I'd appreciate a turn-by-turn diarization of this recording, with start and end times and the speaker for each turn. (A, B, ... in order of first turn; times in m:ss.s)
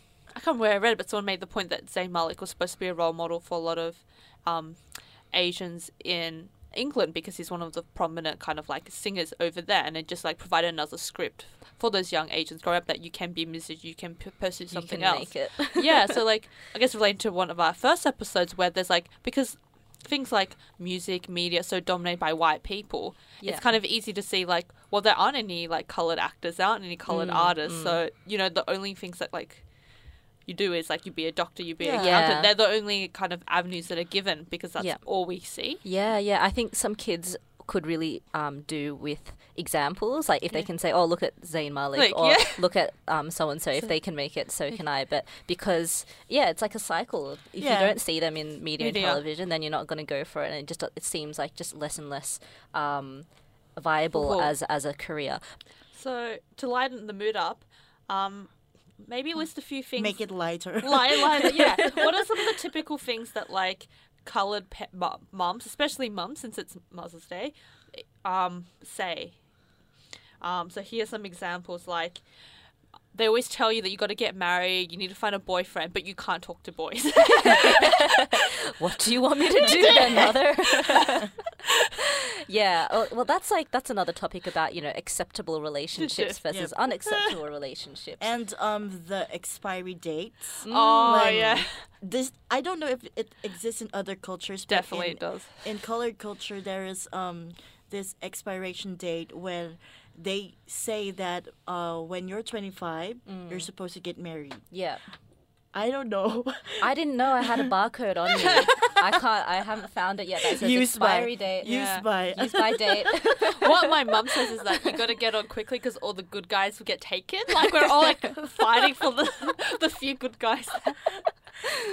0:00.3-0:35.8 A
0:14.7-0:16.2 B
0:23.4-0:23.7 B
0:27.1-0:28.0 B
0:31.8-0:32.2 C
0:32.0-0:32.5 B
0:34.8-0:55.6 B
0:42.0-0:42.6 A
0:47.6-0:48.0 C
0:48.8-0:49.2 A
0:54.1-0:54.5 A
0:55.9-1:09.6 A
1:00.0-1:01.6 C
1:10.4-1:18.1 A
1:17.6-1:21.3 B
1:19.6-1:20.5 A
1:22.5-1:28.3 B
1:26.0-1:27.3 A
1:28.2-1:44.8 C
1:30.6-1:31.6 B
1:30.7-1:31.9 A
1:34.7-1:35.8 A
1:43.3-1:43.7 B
1:44.7-1:45.2 B
1:45.7-1:47.4 C
1:46.8-1:53.8 B
1:48.4-1:48.8 A
1:50.6-1:53.0 C
1:51.6-1:52.0 A
1:53.6-2:01.4 A